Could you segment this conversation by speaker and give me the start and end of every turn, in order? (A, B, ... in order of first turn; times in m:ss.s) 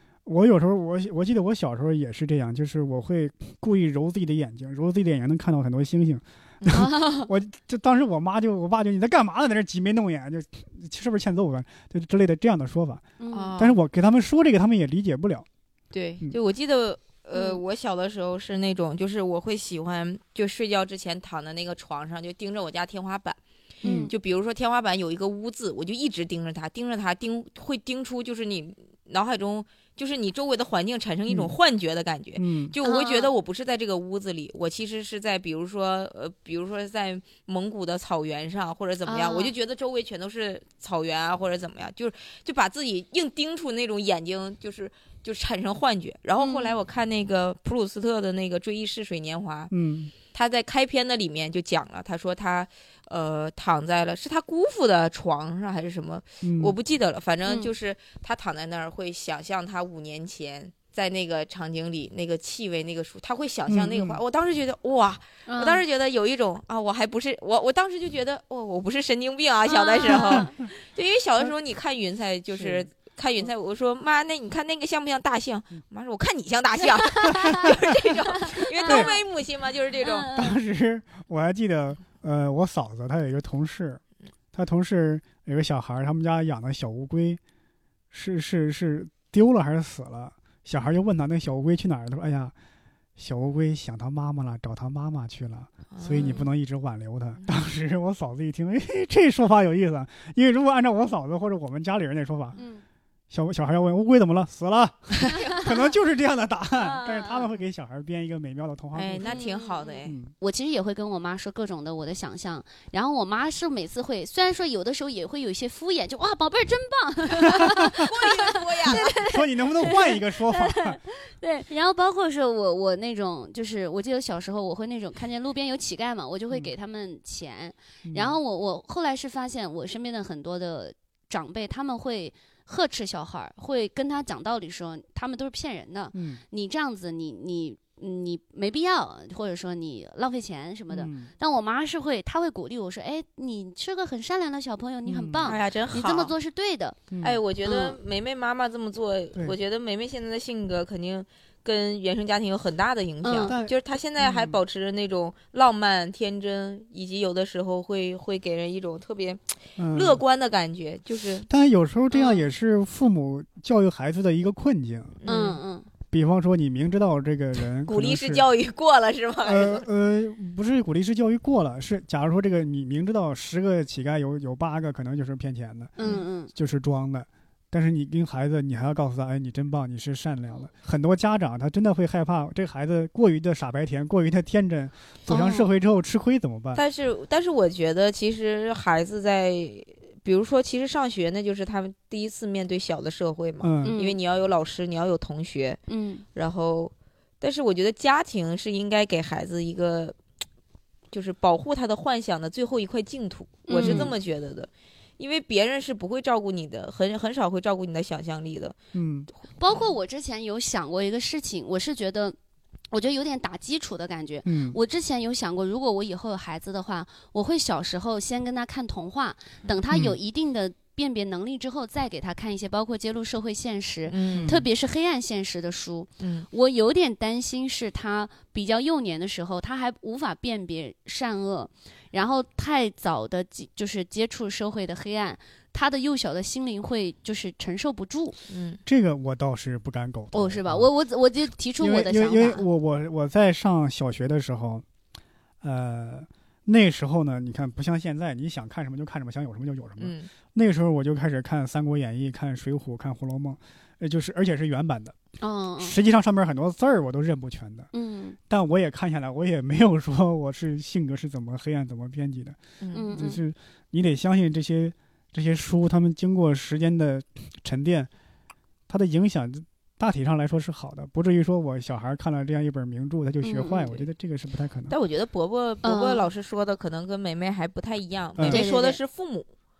0:00.2-0:13.0 A
0:06.7-0:07.3 B
0:13.2-0:13.5 B
0:13.3-0:13.8 C
0:13.6-0:15.4 A
0:15.9-0:23.4 C
0:17.3-0:17.6 B
0:23.8-0:24.1 B
0:23.8-0:24.1 A
0:23.9-0:49.7 C
0:31.3-0:31.5 A
0:32.4-0:32.7 A
0:32.8-0:33.3 B
0:39.0-0:39.5 B
0:46.4-0:46.7 B
0:49.7-0:50.1 A
0:50.3-1:20.3 C
0:56.4-0:56.7 A
0:57.4-0:57.7 B
1:03.7-1:04.2 A
1:05.5-1:05.8 B
1:09.7-1:10.6 B
1:10.1-1:10.4 A
1:12.6-1:12.9 A
1:17.0-1:17.7 B
1:17.4-1:17.8 A
1:18.3-1:19.2 B
1:18.8-1:19.2 A
1:20.0-1:20.5 B
1:20.3-1:24.0 A
1:24.5-1:27.4 A
1:28.1-1:32.5 A
1:33.2-1:42.6 A
1:35.9-1:36.4 C
1:36.2-1:36.5 B
1:42.6-1:42.8 B
1:43.3-1:49.4 A
1:45.3-1:45.6 C
1:46.8-1:47.5 B
1:48.9-1:50.2 C
1:49.2-2:27.0 B
1:50.0-1:50.3 A
1:57.8-1:59.1 C
1:58.8-2:01.0 A
2:08.0-2:08.4 A
2:16.1-2:16.4 A
2:20.9-2:21.3 A
2:25.0-2:25.5 A
2:25.4-2:26.3 C
2:27.1-2:27.4 A
2:27.2-2:41.5 C
2:27.6-2:28.0 B
2:33.2-2:33.5 B
2:33.4-2:34.6 A
2:39.8-2:40.2 A
2:41.5-2:45.2 A
2:45.2-2:45.6 C
2:45.2-2:45.9 B
2:46.1-2:48.4 A
2:47.8-2:49.8 C
2:49.4-3:06.8 A
2:56.0-2:56.5 B
3:05.3-3:05.7 B
3:06.7-3:15.8 C
3:13.6-3:13.9 A
3:13.8-3:14.2 B
3:15.9-3:16.2 B
3:16.3-3:20.2 C
3:21.1-3:28.8 C
3:23.7-3:24.1 B
3:23.8-3:24.1 A
3:28.9-3:29.3 A
3:29.6-3:32.4 B
3:32.9-3:58.4 B
3:34.4-3:34.8 A
3:39.9-3:40.2 A
3:44.1-3:44.5 C
3:44.3-3:44.6 A
3:46.2-3:46.5 C
3:58.5-3:58.8 C
3:58.8-4:00.9 A
4:00.3-4:02.6 B
4:01.8-4:04.8 A
4:05.6-4:15.1 A
4:10.0-4:10.3 C
4:15.4-4:16.0 B
4:15.8-4:17.9 A
4:17.9-4:18.4 B
4:18.5-4:22.6 A
4:22.8-4:23.1 C
4:22.9-4:23.4 B
4:23.1-4:28.1 A
4:28.9-4:34.9 A
4:33.4-4:34.0 B
4:34.9-4:39.5 C
4:35.8-4:36.3 B
4:38.4-4:38.6 A
4:38.4-4:39.0 B